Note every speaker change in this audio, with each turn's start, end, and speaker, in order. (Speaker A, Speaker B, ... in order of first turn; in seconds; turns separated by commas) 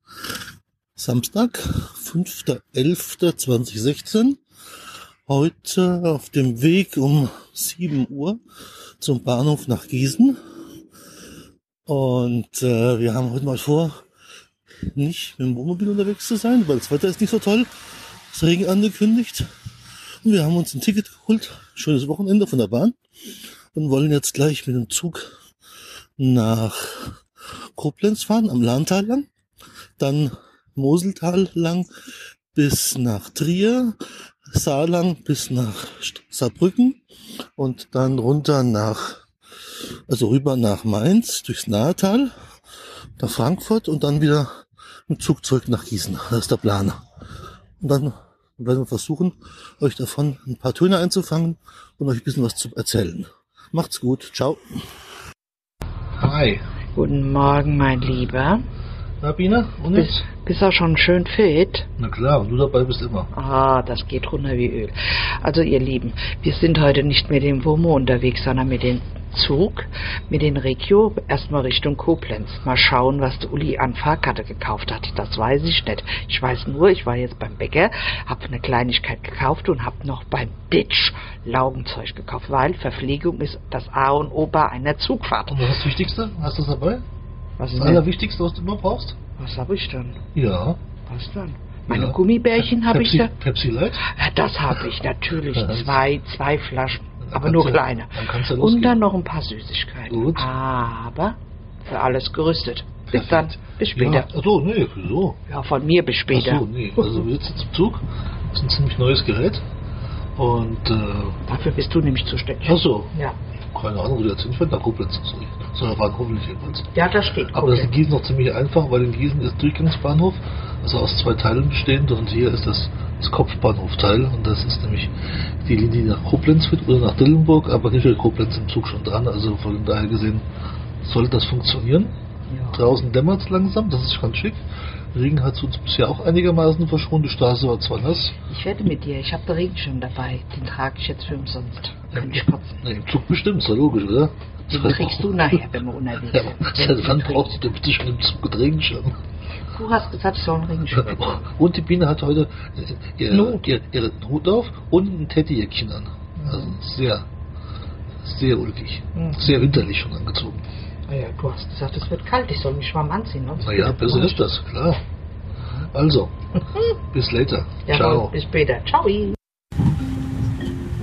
Speaker A: 1.0-4.4, Speaker A: 5.3-8.4, Speaker A: 9.0-10.4, Speaker A: 11.9-14.0, Speaker A: 14.9-17.7, Speaker A: 18.3-19.5, Speaker A: 20.2-23.0, Speaker A: 23.7-25.3, Speaker A: 26.2-27.2, Speaker A: 27.8-29.3, Speaker A: 30.0-31.9, Speaker A: 32.5-34.0, Speaker A: 34.5-37.0, Speaker A: 37.6-39.2, Speaker A: 40.1-42.3, Speaker A: 43.2-47.0, Speaker A: 47.8-54.8, Speaker A: 56.2-56.6, Speaker B: 57.0-58.6, Speaker A: 59.2-60.1, Speaker B: 59.9-61.9, Speaker A: 62.0-63.3, Speaker B: 63.3-85.7, Speaker A: 85.5-87.0, Speaker B: 87.6-88.0, Speaker A: 87.7-89.2, Speaker B: 89.4-90.2, Speaker A: 90.3-90.8, Speaker B: 91.1-93.3, Speaker A: 91.9-92.2, Speaker A: 92.8-94.0, Speaker B: 94.0-104.3, Speaker A: 95.6-95.9, Speaker A: 97.3-99.0, Speaker A: 100.1-100.5, Speaker A: 103.1-105.4, Speaker B: 105.5-107.2, Speaker A: 106.3-109.6, Speaker A: 110.4-111.4, Speaker B: 111.5-113.4, Speaker A: 112.7-113.1, Speaker A: 113.7-116.9, Speaker B: 116.9-118.0, Speaker A: 117.5-130.4, Speaker A: 131.0-132.1, Speaker B: 132.5-133.0, Speaker A: 132.7-134.6, Speaker A: 135.1-138.3, Speaker B: 138.5-142.8, Speaker A: 142.1-145.5, Speaker B: 144.7-147.7, Speaker A: 146.5-149.2, Speaker B: 149.7-151.5, Speaker A: 151.1-157.3, Speaker B: 153.3-153.7, Speaker B: 156.4-156.8, Speaker A: 158.2-160.6, Speaker B: 159.2-159.7, Speaker B: 161.1-164.4, Speaker A: 163.6-165.0, Speaker A: 165.9-166.3, Speaker A: 167.1-168.3, Speaker B: 167.9-169.4